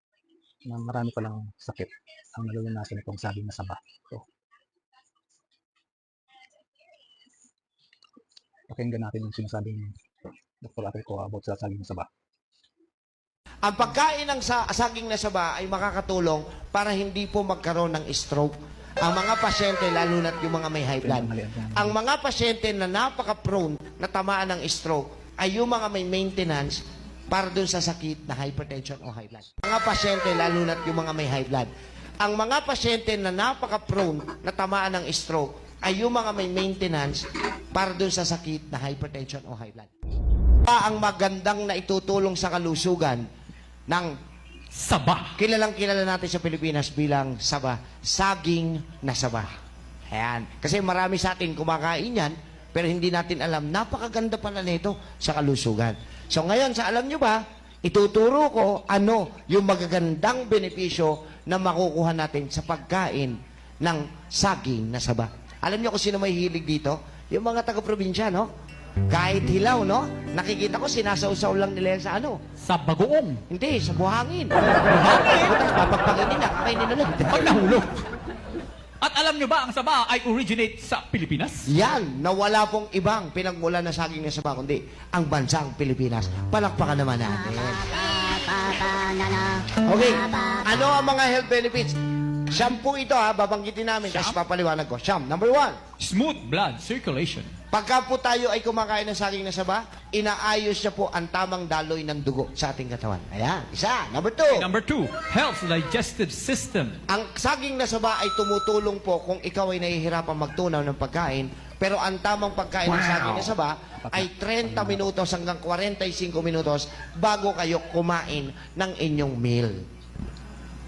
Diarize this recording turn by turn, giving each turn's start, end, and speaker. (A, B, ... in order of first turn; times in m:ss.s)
0:00.6-0:04.2 A
0:08.7-0:09.9 A
0:10.6-0:12.1 A
0:13.6-0:31.7 B
0:21.0-0:22.0 A
0:32.2-0:39.9 B
0:40.6-0:43.2 B
0:44.7-0:45.4 C
0:45.4-0:49.5 B
0:50.1-1:08.5 B
1:09.1-1:12.4 B
1:12.6-1:13.4 C
1:13.5-1:17.5 B
1:14.9-1:15.5 C
1:17.3-1:18.0 C
1:19.0-1:21.7 C
1:21.7-1:28.0 B
1:29.7-1:35.8 B
1:34.1-1:34.4 C
1:36.0-1:37.5 C
1:37.7-1:44.7 B
1:44.5-1:47.0 C
1:47.1-1:59.8 B
1:54.0-1:55.0 A